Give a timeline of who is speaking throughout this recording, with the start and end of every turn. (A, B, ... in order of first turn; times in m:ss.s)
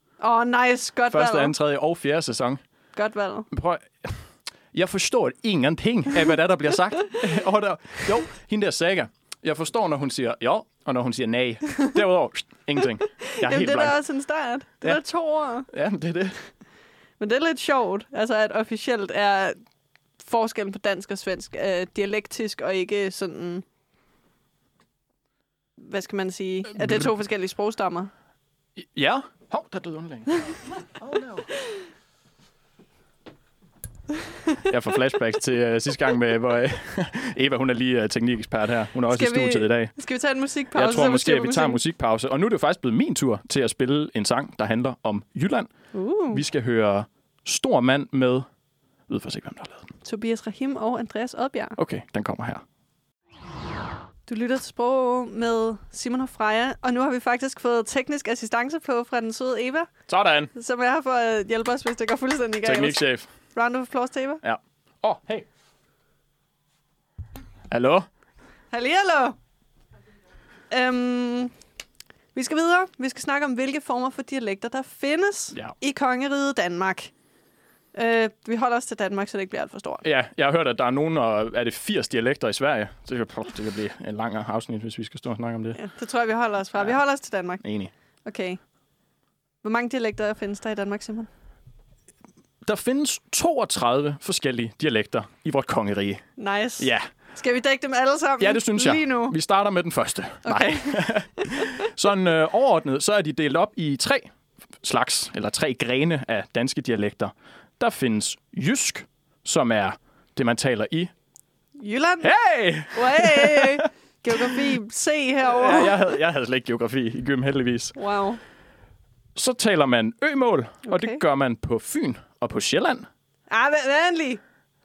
0:00.2-0:01.5 A
0:01.1-0:02.6 B
0:03.0-0:03.5 A
0:03.5-0:04.2 B
0:04.7-0:14.0 B
0:13.2-0:15.7 A
0:15.7-0:16.3 B
0:17.2-0:19.6 A
0:20.2-0:23.6 A
0:25.8-0:28.1 A
0:26.8-0:27.0 B
0:28.8-0:31.5 B
0:34.6-0:39.9 B
0:39.1-0:41.8 A
0:40.7-0:45.7 B
0:45.9-0:46.4 A
0:46.3-0:48.5 B
0:49.1-0:49.9 B
0:50.0-0:51.8 A
0:51.8-0:52.6 B
0:54.3-0:59.9 A
1:00.1-1:00.5 B
1:00.5-1:04.4 A
1:02.6-1:03.3 B
1:04.4-1:05.4 B
1:07.7-1:08.1 B
1:08.7-1:09.4 A
1:10.7-1:11.5 A
1:12.3-1:17.1 A
1:17.9-1:20.0 A
1:20.0-1:25.8 B
1:25.7-1:27.6 A
1:27.6-1:27.9 B
1:28.2-1:28.6 A
1:29.6-1:31.3 A
1:32.6-1:36.2 B
1:36.4-1:39.4 A
1:36.8-1:37.1 B
1:38.4-1:44.3 B
1:40.4-1:41.1 A
1:44.8-1:51.1 B
1:51.8-1:52.3 A
1:52.2-1:54.7 B
1:52.9-1:56.0 A
1:55.4-1:58.0 B
1:58.0-1:58.4 A
1:59.3-2:03.1 B
2:00.8-2:01.2 A
2:03.5-2:04.4 A